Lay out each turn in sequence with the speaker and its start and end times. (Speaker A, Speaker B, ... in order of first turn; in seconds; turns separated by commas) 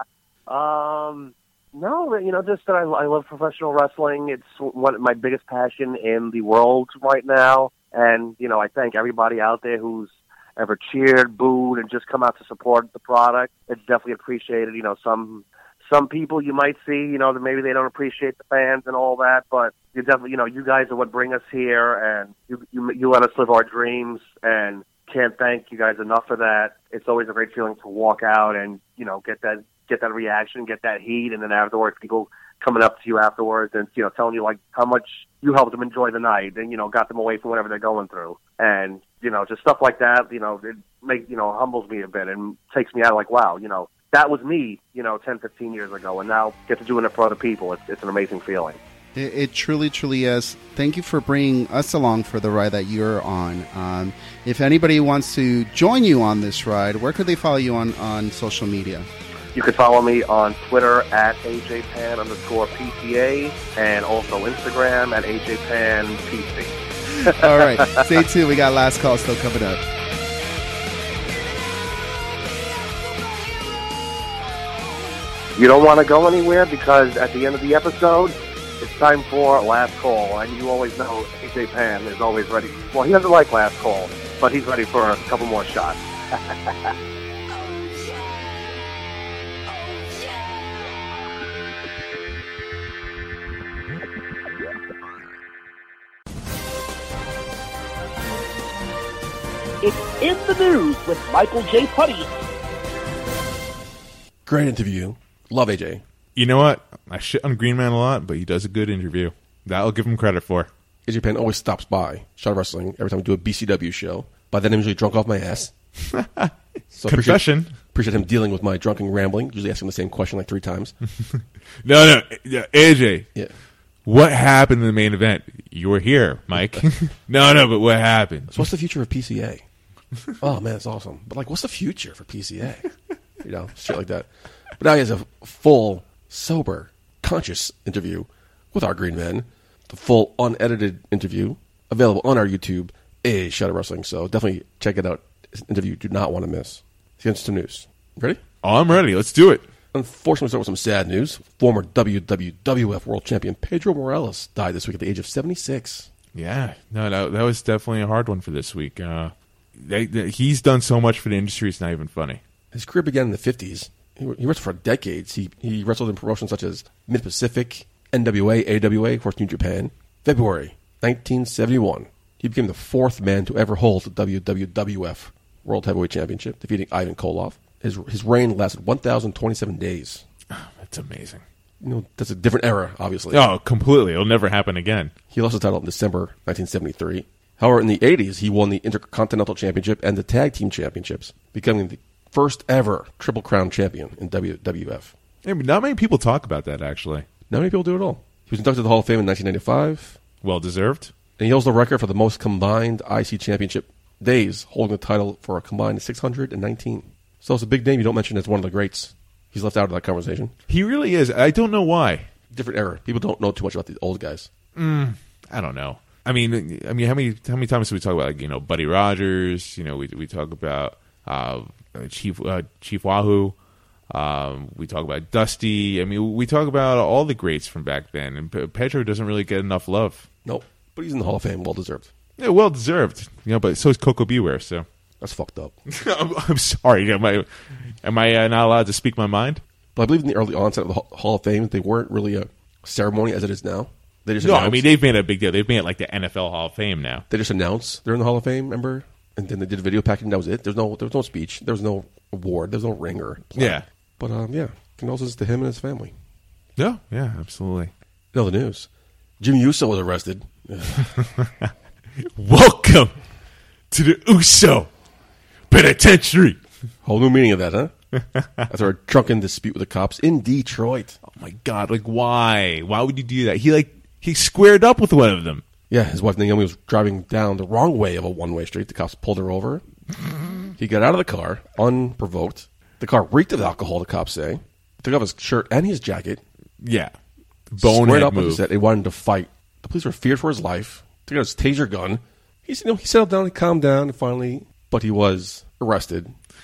Speaker A: 0.5-48.8, Speaker B: 49.1-59.1, Speaker A: 59.5-68.0, Speaker B: 67.2-69.8, Speaker A: 75.6-86.9, Speaker C: 99.8-102.3, Speaker D: 104.5-106.0, Speaker E: 106.4-110.7, Speaker D: 111.1-115.7, Speaker E: 116.1-116.5, Speaker D: 116.9-120.9, Speaker E: 117.1-117.7, Speaker E: 121.8-123.3, Speaker E: 124.1-128.7, Speaker D: 128.5-129.6, Speaker D: 130.4-132.9, Speaker D: 133.4-148.4, Speaker E: 148.6-149.6, Speaker D: 149.9-156.1, Speaker E: 156.3-162.4, Speaker D: 162.7-180.2, Speaker E: 180.5-181.4, Speaker D: 181.8-183.4, Speaker E: 183.3-185.1, Speaker D: 185.3-195.1, Speaker E: 195.4-197.2, Speaker D: 197.5-200.2, Speaker E: 200.4-201.1, Speaker D: 201.4-210.5, Speaker E: 210.7-212.3, Speaker D: 212.5-214.5, Speaker E: 214.8-223.6, Speaker E: 224.1-230.3, Speaker D: 230.4-232.1, Speaker E: 232.4-234.8, Speaker D: 235.2-235.7, Speaker E: 235.9-237.5, Speaker E: 238.0-239.6, Speaker D: 239.9-244.9, Speaker E: 244.4-247.2, Speaker D: 247.3-256.1, Speaker E: 253.6-253.8, Speaker E: 256.8-257.9, Speaker D: 258.3-258.9, Speaker D: 259.4-261.1, Speaker E: 261.2-261.5, Speaker E: 262.3-263.1, Speaker E: 263.9-264.9, Speaker E: 265.7-266.6, Speaker D: 267.0-267.9, Speaker D: 268.7-271.2, Speaker E: 271.3-275.6, Speaker D: 275.9-279.8, Speaker D: 280.8-286.4, Speaker E: 286.8-287.1, Speaker E: 287.7-288.6, Speaker D: 287.8-296.3